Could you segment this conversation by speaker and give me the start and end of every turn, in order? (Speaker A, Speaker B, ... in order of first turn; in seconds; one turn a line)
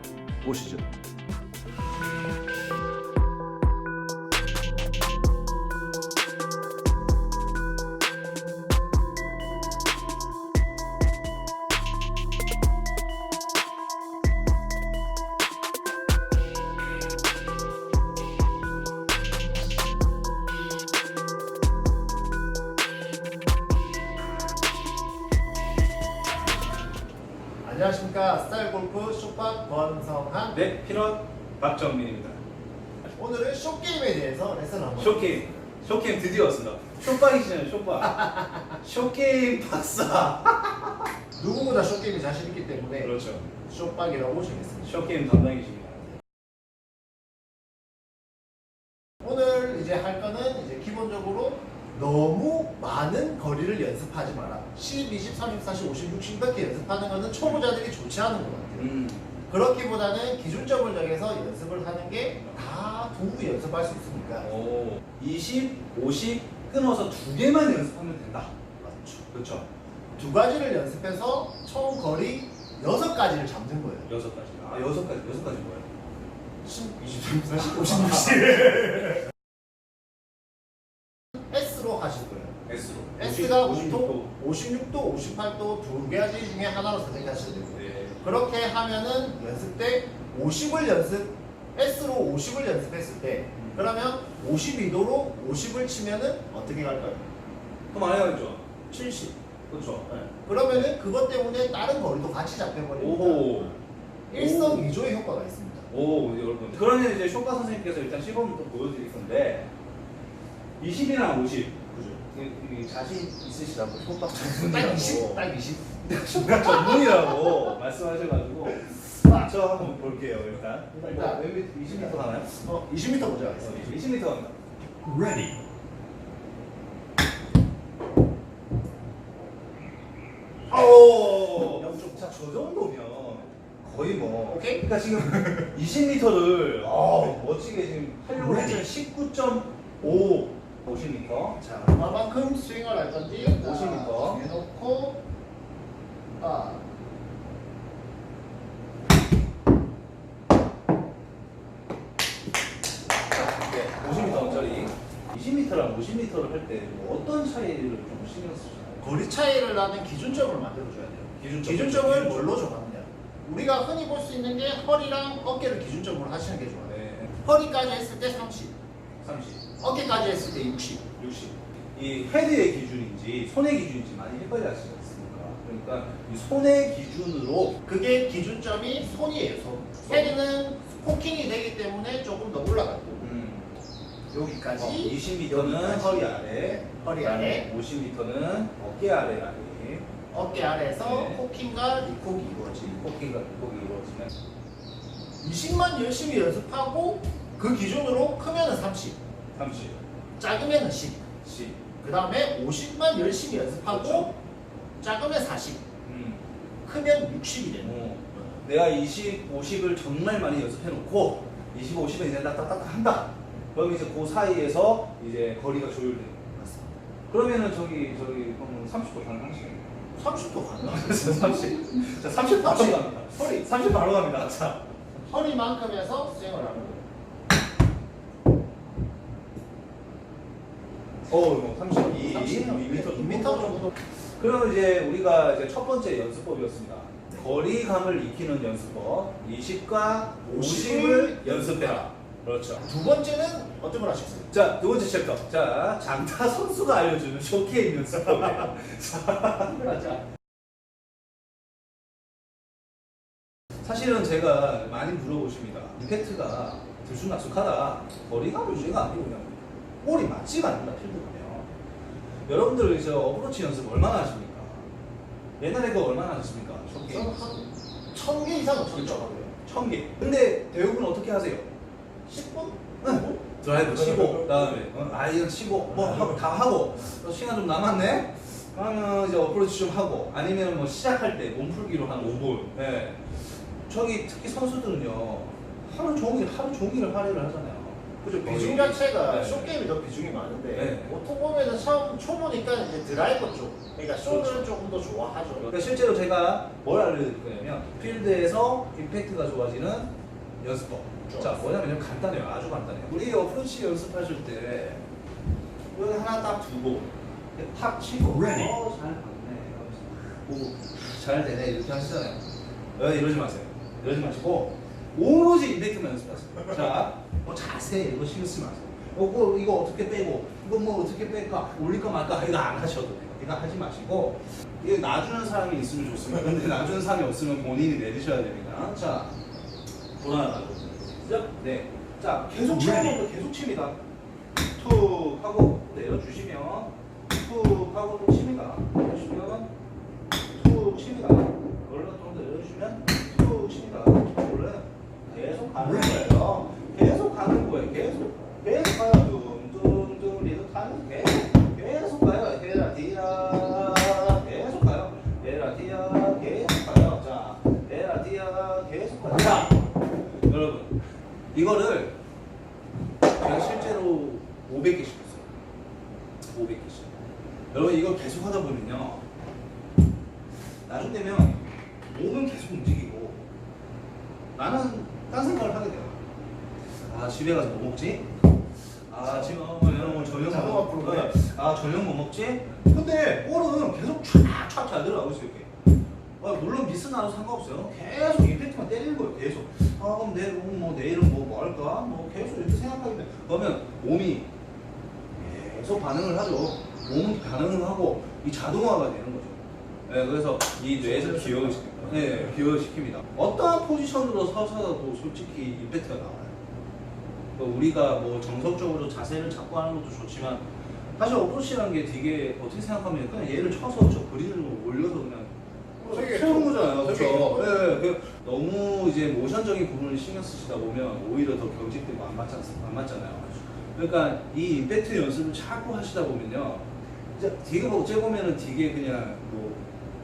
Speaker A: 0.4-0.9
Speaker A: 27.6-30.7
Speaker B: 30.5-32.4
Speaker A: 33.1-35.6
Speaker B: 35.0-41.1
Speaker A: 38.1-38.8
Speaker A: 41.4-45.0
Speaker B: 43.0-43.5
Speaker B: 44.9-46.2
Speaker A: 49.2-58.9
Speaker B: 58.8-59.3
Speaker A: 59.5-64.5
Speaker B: 64.4-68.5
Speaker A: 68.8-69.3
Speaker B: 69.3-69.7
Speaker A: 70.2-74.1
Speaker B: 74.1-75.9
Speaker A: 76.6-79.2
Speaker A: 81.5-82.6
Speaker B: 82.7-84.3
Speaker A: 83.2-97.3
Speaker B: 87.8-88.2
Speaker B: 93.6-93.8
Speaker B: 97.9-100.1
Speaker A: 100.1-103.8
Speaker B: 103.0-103.8
Speaker A: 104.3-105.9
Speaker B: 104.3-104.9
Speaker B: 105.9-109.7
Speaker B: 110.8-115.5
Speaker A: 111.9-112.2
Speaker A: 114.6-117.7
Speaker B: 116.0-122.5
Speaker A: 120.9-124.0
Speaker B: 123.6-124.6
Speaker A: 125.2-125.5
Speaker A: 130.7-132.4
Speaker B: 130.7-141.6
Speaker A: 134.5-134.9
Speaker A: 141.6-145.2
Speaker B: 143.4-144.4
Speaker A: 146.4-146.8
Speaker B: 153.3-159.1
Speaker A: 159.0-168.8
Speaker B: 161.4-162.6
Speaker B: 166.9-167.3
Speaker B: 169.2-169.6
Speaker A: 169.8-171.1
Speaker B: 171.2-177.8
Speaker A: 177.8-183.3
Speaker B: 180.0-180.4
Speaker B: 183.2-183.8
Speaker A: 184.3-187.7
Speaker B: 184.7-190.1
Speaker A: 190.3-193.0
Speaker B: 191.0-191.4
Speaker B: 192.9-194.3
Speaker A: 195.4-199.2
Speaker B: 199.6-200.0
Speaker A: 200.4-201.3
Speaker B: 201.4-201.8
Speaker A: 202.0-204.3
Speaker B: 203.9-204.3
Speaker A: 205.0-205.8
Speaker B: 206.1-206.4
Speaker A: 206.8-208.6
Speaker B: 207.8-216.5
Speaker A: 216.6-216.9
Speaker B: 217.3-219.8
Speaker A: 220.2-223.7
Speaker B: 220.8-224.9
Speaker A: 225.2-227.1
Speaker B: 231.3-242.8
Speaker A: 232.1-233.9
Speaker A: 240.4-242.1
Speaker A: 242.8-244.5
Speaker B: 244.5-250.1
Speaker A: 249.9-250.2
Speaker B: 253.8-261.7
Speaker B: 262.5-264.9
Speaker B: 265.6-267.5
Speaker A: 267.1-269.5
Speaker B: 268.9-271.7
Speaker A: 272.3-273.6
Speaker B: 273.0-289.8
Speaker A: 288.4-295.8
Speaker B: 290.7-291.2
Speaker B: 294.2-294.7
Speaker B: 295.7-305.1
Speaker A: 301.3-301.7
Speaker B: 305.9-312.4
Speaker B: 313.0-329.4
Speaker B: 330.2-334.0
Speaker B: 334.8-339.7
Speaker B: 340.5-359.9
Speaker B: 360.5-361.0
Speaker B: 361.5-362.2
Speaker B: 363.4-365.5
Speaker B: 366.5-367.2
Speaker B: 367.7-369.2
Speaker B: 370.9-373.5
Speaker B: 374.5-376.2
Speaker B: 377.0-378.3
Speaker B: 379.1-385.7
Speaker A: 379.2-381.4
Speaker B: 386.4-394.5
Speaker B: 395.4-406.5
Speaker A: 401.0-402.6
Speaker B: 407.6-415.6
Speaker A: 416.0-417.9
Speaker B: 416.1-429.8